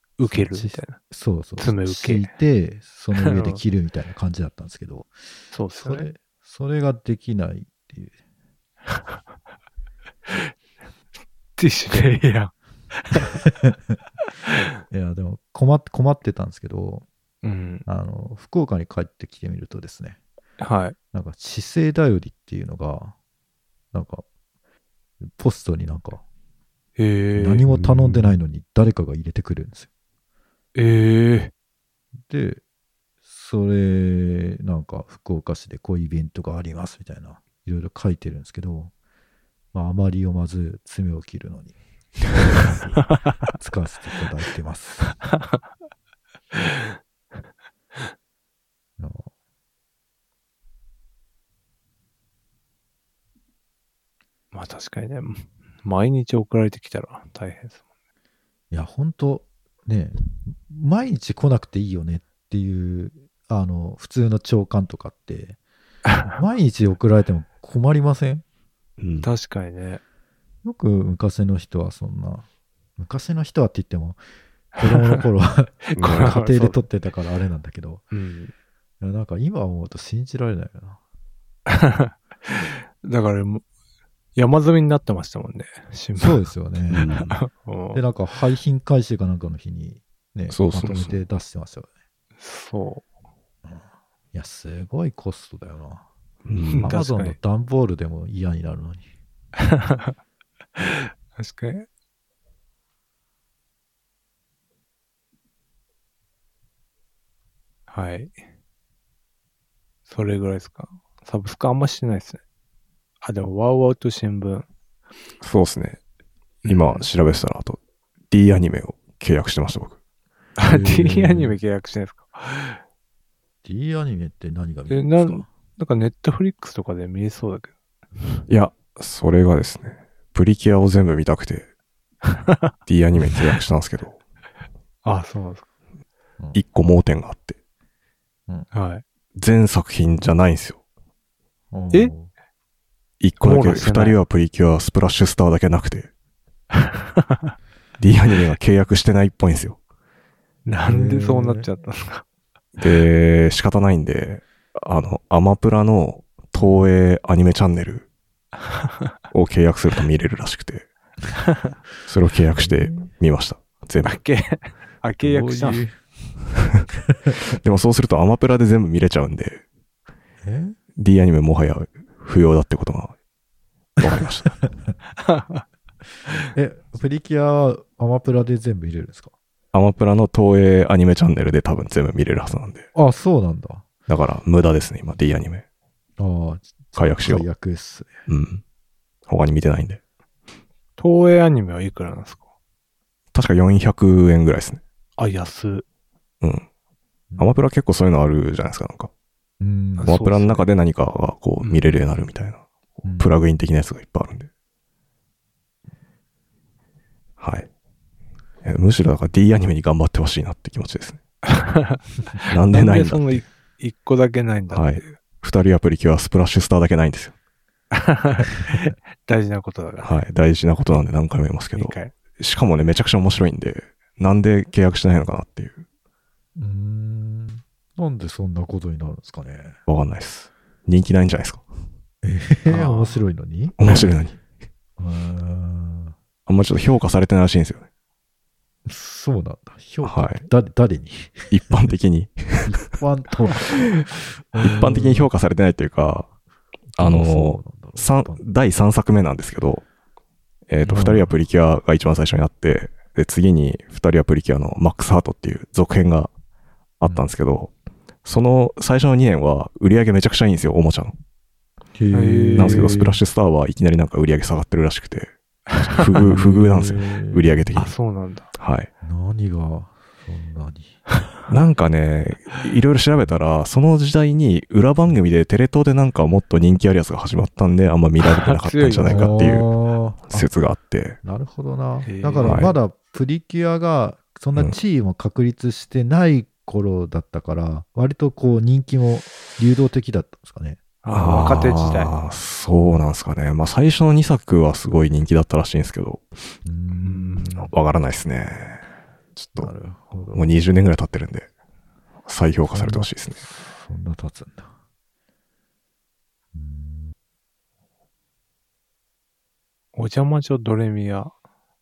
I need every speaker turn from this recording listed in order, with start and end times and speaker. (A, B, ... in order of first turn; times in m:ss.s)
0:00.2-0:01.0 A
0:00.2-0:05.1 B
0:01.6-0:02.3 A
0:03.2-0:03.6 A
0:05.5-0:06.1 A
0:05.8-0:08.1 B
0:11.6-0:13.4 A
0:13.5-0:14.0 B
0:14.9-0:17.1 B
0:17.4-0:17.8 A
0:17.9-0:20.2 B
0:20.6-0:21.0 A
0:21.1-0:23.2 B
0:23.9-0:24.2 B
0:25.2-0:26.2 B
0:27.0-0:27.7 A
0:27.4-0:29.9 B
0:30.8-0:31.5 A
0:32.3-0:32.6 B
0:33.2-0:38.9 B
0:39.7-0:41.8 B
0:42.5-0:45.2 B
0:49.0-0:49.3 B
0:54.5-0:57.8 A
0:58.7-1:05.6 B
1:06.3-1:08.4 B
1:09.0-1:09.3 C
1:09.2-1:10.0 A
1:10.6-1:12.5 B
1:13.0-1:14.2 B
1:14.8-1:18.0 B
1:15.9-1:16.8 A
1:16.0-1:16.3 C
1:18.1-1:18.5 A
1:19.0-1:21.0 B
1:21.7-1:23.6 A
1:24.4-1:26.5 A
1:26.2-1:27.1 B
1:26.9-1:27.4 C
1:27.3-1:28.0 A
1:27.9-1:31.9 B
1:30.5-1:31.2 C
1:32.4-1:33.1 A
1:33.6-1:36.0 B
1:36.4-1:36.9 C
1:36.7-1:37.4 A
1:36.8-1:39.1 B
1:39.6-1:40.2 A
1:40.8-1:41.9 A
1:47.9-1:48.4 A
1:50.1-1:52.4 A
1:53.2-1:54.7 A
1:55.4-1:56.0 C
1:56.6-1:57.1 A
1:56.7-1:57.8 C
1:58.3-2:00.0 C
2:00.6-2:02.8 A
2:00.7-2:01.6 B
2:03.6-2:05.5 B
2:04.9-2:07.7 A
2:08.5-2:11.7 C
2:12.9-2:14.2 C
2:15.0-2:15.6 A
2:16.5-2:17.6 C
2:18.7-2:19.0 A
2:19.4-2:20.8 C
2:21.7-2:22.3 B
2:23.2-2:26.1 C
2:23.4-2:24.2 A
2:28.0-2:29.8 C
2:30.7-2:32.2 A
2:30.8-2:31.7 B
2:32.8-2:38.1 C
2:36.6-2:36.9 B
2:39.3-2:40.9 C
2:42.1-2:44.2 C
2:42.6-2:43.1 B
2:44.0-2:45.8 A
2:45.2-2:45.9 B
2:47.6-2:49.6 C
2:50.4-2:50.8 B
2:51.0-2:53.2 C
2:54.0-2:54.6 C
2:55.2-2:55.6 A
2:56.5-2:59.3 B
2:59.7-3:02.9 C
3:02.9-3:03.9 B
3:04.1-3:05.6 C
3:06.2-3:08.1 B
3:07.0-3:07.5 C
3:08.3-3:08.6 C
3:09.3-3:10.0 C
3:11.0-3:12.4 A
3:13.3-3:14.8 C
3:15.2-3:15.8 A
3:16.4-3:16.7 C
3:17.3-3:17.6 B
3:17.4-3:19.1 C
3:19.6-3:20.6 B
3:20.0-3:20.6 A
3:20.0-3:24.5 C
3:21.6-3:21.9 A
3:23.0-3:23.4 B
3:27.4-3:27.7 C
3:28.6-3:31.2 C
3:31.5-3:35.2 A
3:32.5-3:33.2 C
3:34.7-3:37.4 C
3:37.9-3:40.1 A
3:40.0-3:45.8 C
3:41.7-3:42.1 A
3:46.6-3:49.8 B
3:49.9-3:51.6 C
3:52.2-3:54.1 B
3:52.7-3:53.2 A
3:53.8-3:54.4 C
3:55.0-3:56.2 B
3:56.5-3:57.9 C
3:58.9-4:01.9 B
4:00.0-4:00.5 C
4:01.5-4:02.8 C
4:02.6-4:03.8 B
4:04.5-4:05.3 B
4:04.6-4:06.3 C
4:07.0-4:08.4 B
4:07.0-4:09.8 C
4:10.7-4:16.3 C
4:10.9-4:11.2 A
4:17.0-4:17.7 C
4:18.2-4:21.2 C
4:22.0-4:23.2 B
4:22.1-4:23.0 A
4:22.6-4:28.0 C
4:26.2-4:27.7 B
4:27.7-4:28.5 A
4:28.6-4:28.9 C
4:29.0-4:31.0 B
4:31.5-4:39.7 C
4:38.2-4:39.3 A
4:39.0-4:40.5 B
4:40.3-4:41.2 C
4:41.2-4:50.8 B
4:42.0-4:42.7 A
4:42.4-4:42.7 C
4:51.0-4:52.1 A
4:51.1-4:56.4 C
4:56.6-4:57.7 B
4:57.0-4:57.6 A
4:57.4-4:59.7 C
4:59.6-5:00.5 B
5:00.3-5:01.5 C
5:02.3-5:03.4 C
5:02.7-5:04.7 B
5:06.5-5:07.1 B
5:09.9-5:11.3 A